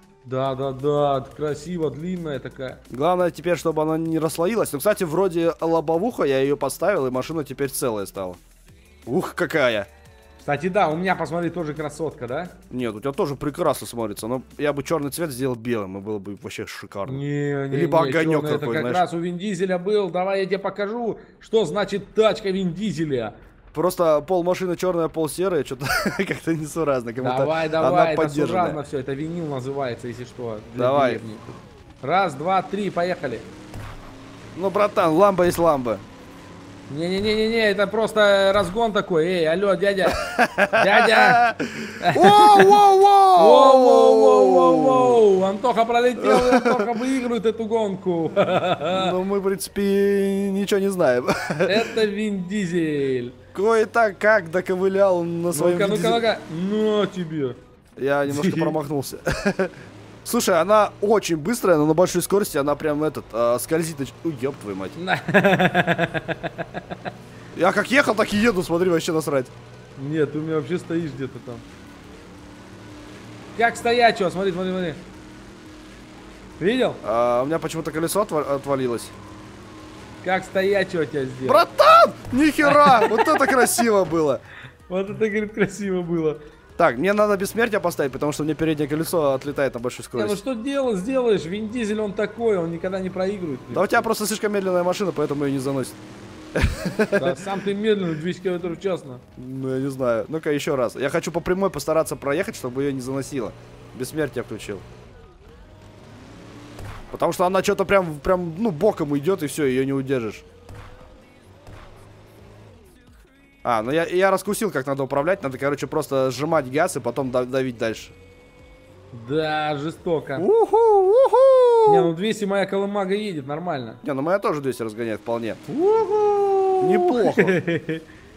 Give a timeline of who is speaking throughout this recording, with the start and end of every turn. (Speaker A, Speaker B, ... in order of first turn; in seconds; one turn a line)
Speaker A: 0.2-2.8
Speaker B: 2.9-8.4
Speaker B: 9.1-9.9
Speaker A: 10.4-12.6
Speaker B: 12.7-19.0
Speaker A: 17.1-23.3
Speaker B: 23.7-28.8
Speaker A: 27.2-31.4
Speaker B: 30.8-31.2
Speaker A: 32.0-33.5
Speaker B: 34.5-36.0
Speaker A: 36.9-41.5
Speaker B: 40.2-45.2
Speaker A: 42.0-49.2
Speaker B: 46.2-46.8
Speaker B: 48.9-51.9
Speaker A: 51.6-53.4
Speaker B: 53.5-56.2
Speaker A: 55.5-57.6
Speaker B: 58.0-59.7
Speaker A: 58.3-58.8
Speaker B: 60.2-65.0
Speaker A: 64.9-67.0
Speaker B: 67.5-69.5
Speaker A: 70.0-71.6
Speaker A: 73.5-75.0
Speaker A: 76.6-77.0
Speaker B: 77.0-79.1
Speaker A: 80.2-81.6
Speaker B: 81.4-84.4
Speaker A: 82.6-83.8
Speaker A: 84.9-86.4
Speaker B: 86.8-90.4
Speaker A: 90.1-94.1
Speaker B: 93.7-96.0
Speaker B: 96.5-97.4
Speaker A: 97.2-99.2
Speaker B: 99.4-104.8
Speaker B: 107.1-110.4
Speaker B: 113.6-118.1
Speaker A: 119.1-120.5
Speaker B: 120.4-122.1
Speaker A: 121.8-124.0
Speaker B: 124.0-125.6
Speaker A: 125.7-128.0
Speaker B: 126.8-127.6